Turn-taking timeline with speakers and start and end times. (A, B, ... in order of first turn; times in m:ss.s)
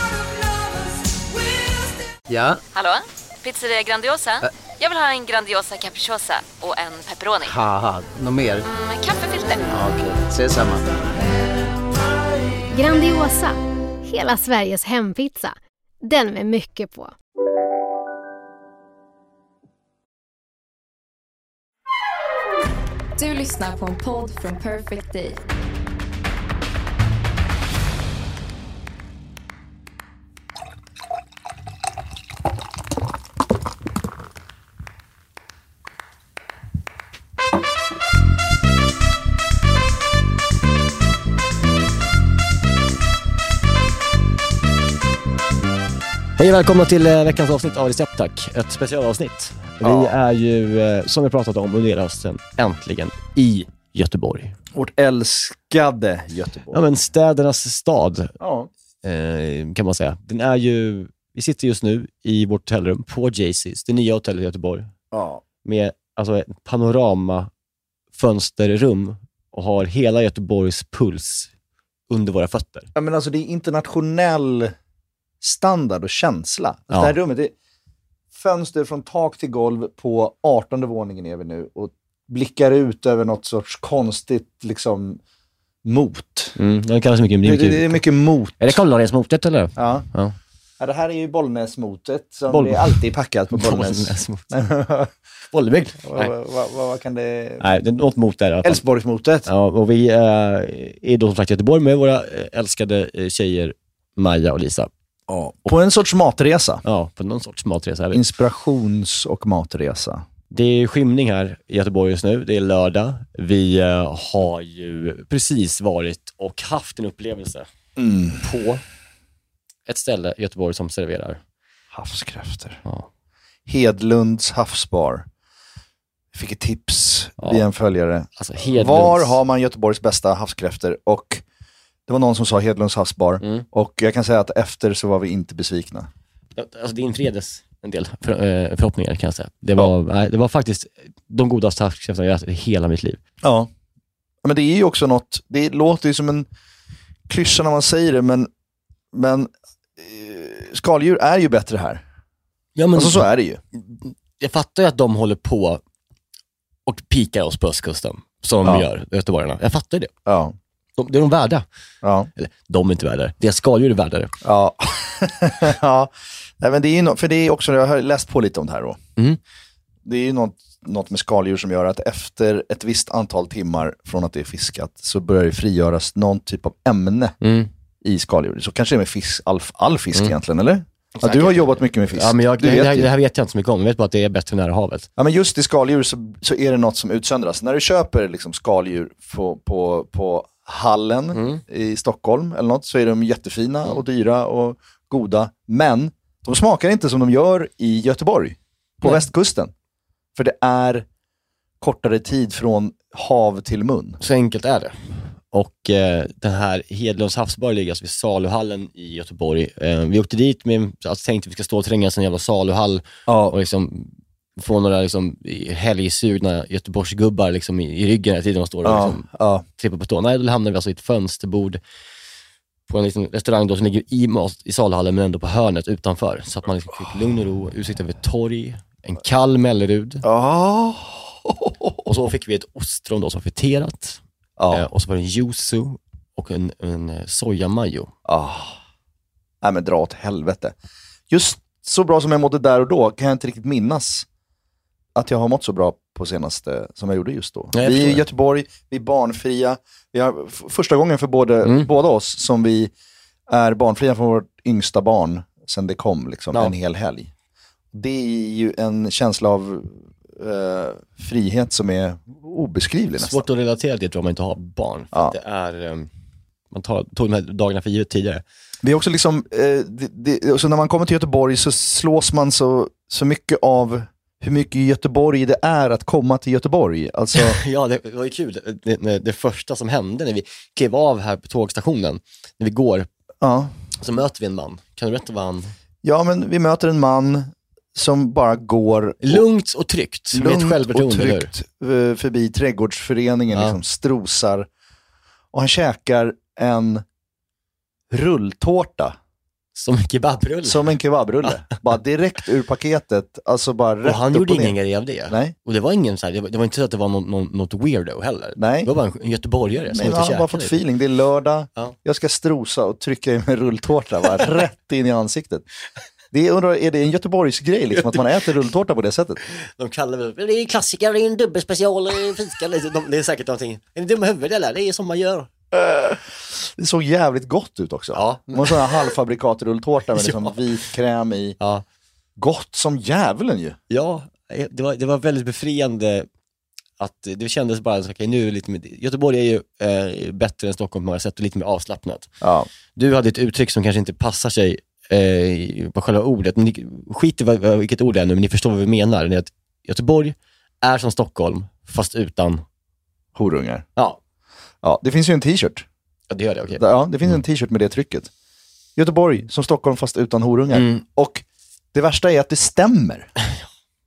0:02.3-0:02.6 A
0:02.7-0:07.5 B
0:07.4-0:08.6 A
0:08.7-0:09.6 B
0:09.7-0:10.8 A
0:12.7-0:17.1 C
0:23.2-0:25.4 D
0:46.4-0:54.5 E
0:49.8-0:50.2 F
0:54.7-0:56.9 F
0:56.7-0:58.3 E
0:58.4-0:58.7 F
0:59.0-1:04.9 E
1:05.1-1:05.4 F
1:05.6-1:07.5 E
1:08.1-1:11.5 E
1:12.1-1:12.9 E
1:12.9-1:14.7 F
1:15.4-1:17.5 F
1:18.3-1:25.2 F
1:25.8-1:26.5 F
1:26.6-1:28.0 E
1:27.4-1:28.8 F
1:28.6-1:30.3 E
1:29.8-1:30.0 F
1:30.8-1:35.1 F
1:32.5-1:33.0 E
1:33.5-1:34.4 E
1:35.5-1:36.3 E
1:36.0-1:37.7 F
1:37.6-1:38.8 E
1:38.6-1:39.5 F
1:39.4-1:44.9 E
1:45.3-1:46.8 F
1:46.8-1:48.2 E
1:48.1-1:50.2 F
1:50.5-1:57.7 E
1:58.0-1:58.4 F
1:58.4-1:58.8 E
1:59.9-2:01.4 E
2:01.9-2:02.8 F
2:03.7-2:05.2 F
2:06.3-2:11.4 F
2:08.4-2:09.4 E
2:12.1-2:16.1 F
2:13.4-2:13.6 E
2:16.6-2:23.2 E
2:23.4-2:23.7 F
2:24.4-2:26.5 F
2:27.3-2:28.5 F
2:29.1-2:32.0 F
2:32.8-2:35.8 E
2:32.9-2:33.6 F
2:36.8-2:40.1 E
2:40.2-2:40.5 F
2:41.0-2:41.6 E
2:42.0-2:42.3 F
2:42.4-2:44.3 E
2:44.4-2:49.0 F
2:50.0-2:57.3 F
2:57.4-2:57.7 E
2:58.0-3:03.1 F
3:01.2-3:05.1 E
3:05.2-3:19.7 F
3:11.3-3:11.6 E
3:20.3-3:21.0 F
3:21.8-3:24.2 F
3:24.2-3:39.2 E
3:33.3-3:33.5 F
3:38.8-3:39.6 F
3:39.8-3:41.8 E
3:42.9-3:50.2 E
3:50.2-3:52.0 F
3:52.0-3:54.2 E
3:54.6-3:54.9 F
3:54.7-3:58.1 E
3:58.2-3:58.8 F
3:59.6-4:00.7 F
4:01.3-4:04.3 F
4:05.1-4:12.9 F
4:07.7-4:08.2 E
4:11.6-4:11.9 E
4:13.5-4:17.3 F
4:17.9-4:23.4 F
4:23.2-4:26.1 E
4:26.7-4:28.4 E
4:28.8-4:37.6 F
4:37.3-4:43.1 E
4:43.4-4:43.7 F
4:44.0-4:45.7 E
4:46.0-4:49.4 F
4:49.2-4:51.5 E
4:50.3-4:54.7 F
4:55.5-4:57.0 F
4:58.1-4:59.2 F
4:59.8-5:01.0 E
5:00.6-5:04.8 F
5:04.0-5:10.8 E
5:05.3-5:05.5 F
5:08.6-5:08.9 F
5:09.9-5:15.6 F
5:16.3-5:19.4 F
5:19.5-5:25.5 E
5:25.7-5:31.6 F
5:28.1-5:29.0 E
5:30.1-5:30.6 E
5:31.6-5:31.8 E
5:32.4-5:33.8 F
5:33.9-5:36.3 E
5:37.0-5:42.3 E
5:42.4-5:42.7 F
5:42.9-5:52.6 E
5:53.4-5:53.9 F
5:54.8-5:55.8 F
5:56.3-5:56.8 E
5:56.7-5:58.3 F
5:59.0-6:03.3 F
6:00.7-6:01.0 E